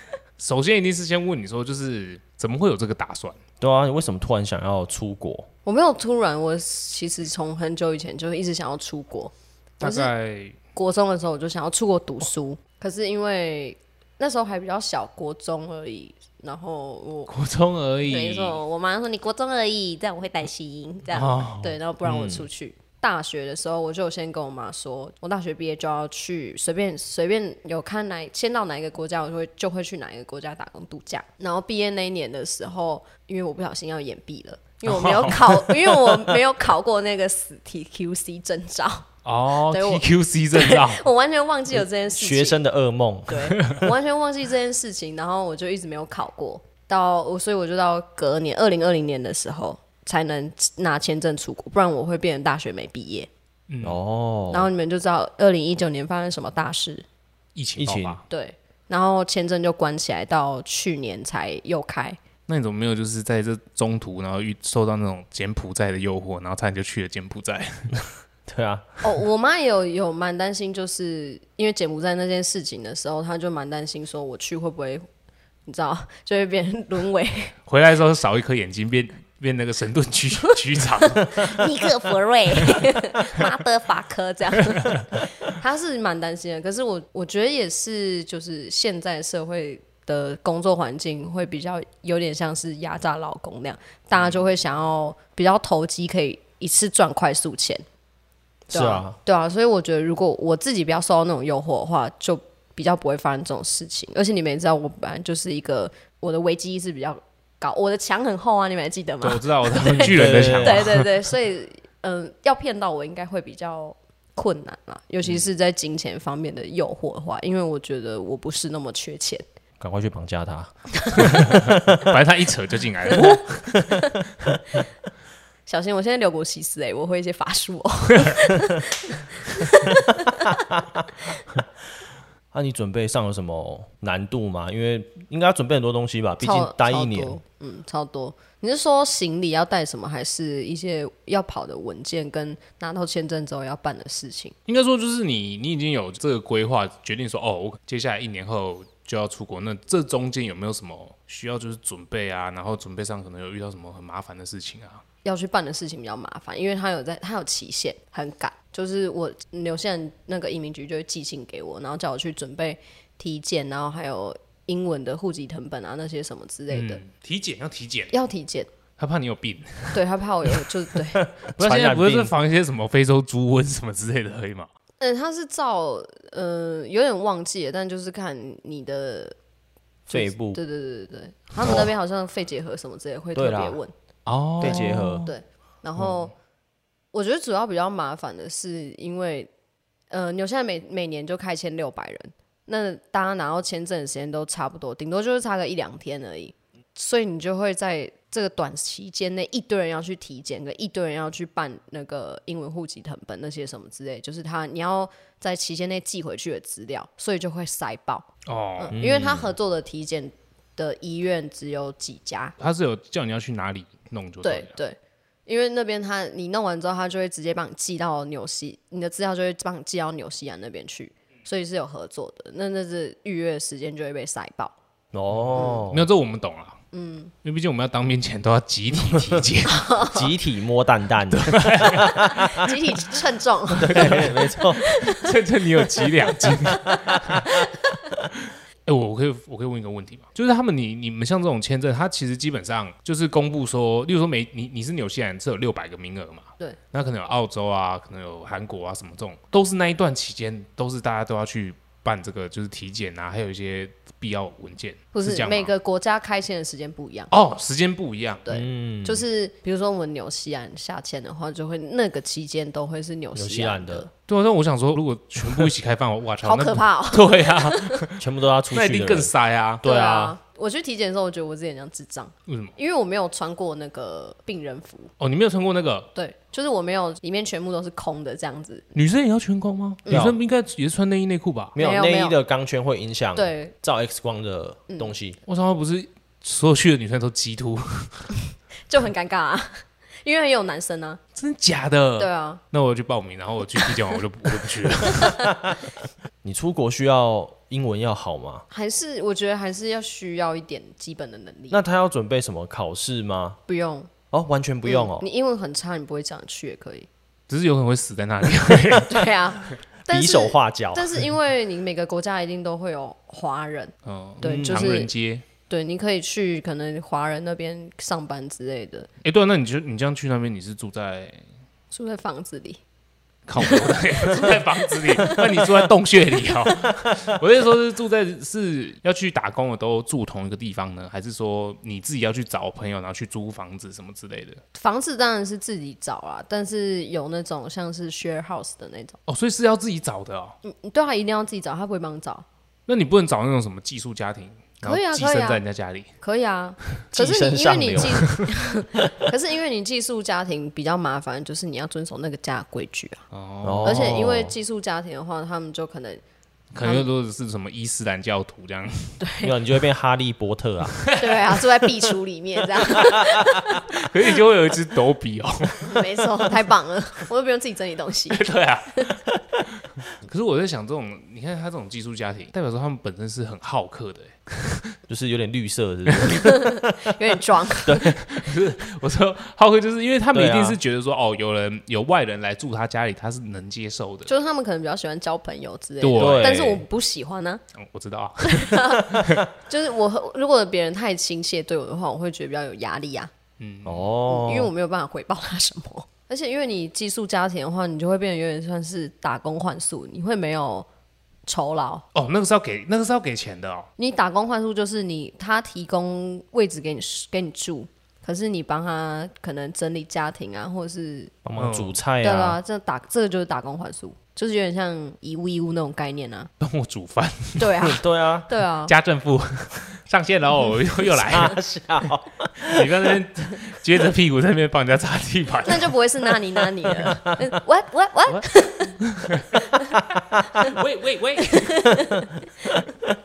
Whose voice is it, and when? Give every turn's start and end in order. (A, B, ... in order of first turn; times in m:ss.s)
0:00.4-0:03.4 A
0:03.6-0:05.5 B
0:05.7-0:10.1 C
0:09.8-0:10.6 A
0:10.8-0:17.3 C
0:17.3-0:18.6 A
0:18.1-0:39.1 C
0:21.1-0:21.8 A
0:22.0-0:22.5 B
0:34.9-0:35.8 A
0:39.2-0:41.1 A
0:39.7-0:42.6 C
0:42.2-0:43.9 B
0:43.3-0:53.3 C
0:53.7-0:54.0 A
0:53.8-0:54.7 B
0:54.5-0:57.0 C
0:57.6-0:58.2 A
0:57.8-0:58.2 B
0:58.3-1:02.2 C
1:02.5-1:07.9 A
1:08.5-1:09.0 B
1:09.0-1:15.0 C
1:15.7-1:17.6 C
1:17.7-1:21.6 A
1:21.2-1:37.8 C
1:38.7-1:59.4 C
1:38.7-1:39.2 B
1:49.2-1:51.1 A
1:50.0-1:50.9 B
1:59.8-2:02.0 B
2:01.0-2:01.2 C
2:01.2-2:03.8 A
2:03.2-2:04.3 C
2:05.7-2:10.6 C
2:10.8-2:11.0 B
2:12.5-2:17.4 B
2:16.4-2:24.6 C
2:24.7-2:35.0 A
2:35.2-2:47.0 C
2:46.7-2:48.2 A
2:48.1-2:48.7 C
2:49.0-2:50.0 A
2:49.9-2:51.2 C
2:51.2-2:52.4 B
2:51.6-2:54.7 A
2:55.0-2:59.4 C
3:00.1-3:03.9 C
3:00.1-3:00.6 B
3:01.6-3:01.9 B
3:03.4-3:03.8 B
3:04.2-3:05.3 A
3:04.6-3:05.3 B
3:04.6-3:06.3 C
3:06.0-3:06.2 A
3:07.1-3:09.5 C
3:10.1-3:32.6 C
3:28.5-3:28.9 A
3:28.9-3:29.5 B
3:32.6-3:34.8 A
3:34.4-3:44.8 C
3:45.1-3:46.1 B
3:45.3-3:46.8 A
3:45.6-3:45.8 C
3:46.9-3:47.3 C
3:47.4-3:49.9 A
3:49.0-3:49.4 B
3:49.7-3:50.3 C
3:50.1-3:52.7 B
3:51.3-3:52.5 A
3:52.2-3:55.2 C
3:53.8-3:54.8 B
3:53.8-3:57.5 A
3:56.7-3:57.6 B
3:58.3-4:15.7 A
4:15.1-4:17.3 C
4:17.3-4:18.5 A
4:18.5-4:24.1 C
4:18.5-4:19.2 B
4:23.4-4:24.1 B
4:24.3-4:28.2 A
4:26.4-4:28.0 C
4:28.2-4:30.4 B
4:28.7-4:29.9 A
4:29.8-4:35.1 C
4:32.5-4:32.7 A
4:35.2-4:36.1 A
4:36.2-4:38.9 C
4:38.9-4:41.8 A
4:40.1-4:40.3 C
4:40.1-4:40.4 B
4:41.8-4:45.4 B
4:41.8-4:42.4 C
4:43.4-4:43.7 C
4:44.9-4:45.1 C
4:45.5-4:48.3 A
4:48.9-4:51.2 C
4:51.4-4:55.4 A
4:52.2-4:52.6 C
4:55.1-4:55.5 C
4:56.4-4:58.6 B
4:58.7-5:01.8 C
5:01.7-5:03.6 B
5:03.7-5:04.1 C
5:04.3-5:05.2 B
5:04.8-5:07.1 C
5:07.5-5:09.3 A
5:09.1-5:15.1 C
5:10.1-5:11.2 B
5:14.0-5:15.4 A
5:14.4-5:14.9 B
5:15.7-5:19.1 C
5:19.2-5:21.4 A
5:21.9-5:22.8 C
5:23.5-5:34.6 A
5:23.6-5:25.7 C
5:34.8-5:39.2 C
5:39.3-5:40.6 A
5:40.6-5:42.4 C
5:42.9-5:46.1 A
5:44.8-5:45.6 C
5:46.2-5:53.2 C
5:47.1-5:48.4 B
5:53.3-5:54.2 A
5:53.6-5:54.5 B
5:53.8-5:56.2 C
5:56.7-5:59.2 A
5:56.8-5:57.1 C
5:59.2-5:59.6 C
5:59.4-6:01.0 B
6:00.9-6:01.3 A
6:01.2-6:03.8 C
6:03.9-6:06.1 A
6:05.8-6:09.1 C
6:08.3-6:09.2 A
6:09.8-6:14.9 A
6:15.1-6:16.9 B
6:16.3-6:18.1 C
6:17.8-6:18.1 B
6:18.0-6:24.3 A
6:20.3-6:20.8 B
6:24.3-6:27.6 C
6:26.0-6:26.6 A
6:26.2-6:26.8 B
6:27.8-6:29.5 A
6:28.4-6:33.3 C
6:33.6-6:34.1 A
6:33.8-6:34.7 B
6:34.2-6:40.9 C
6:41.5-6:42.0 C
6:42.1-6:43.9 A
6:44.0-6:51.4 C
6:51.4-6:52.6 B
6:51.6-6:52.0 A
6:52.2-6:56.5 C
6:56.6-6:57.7 A
6:57.6-6:58.9 C
6:57.8-6:58.5 B
6:58.9-7:01.6 A
7:01.1-7:03.0 B
7:02.6-7:05.9 A
7:05.6-7:09.0 C
7:09.0-7:09.6 A
7:10.5-7:11.9 A
7:11.5-7:12.3 C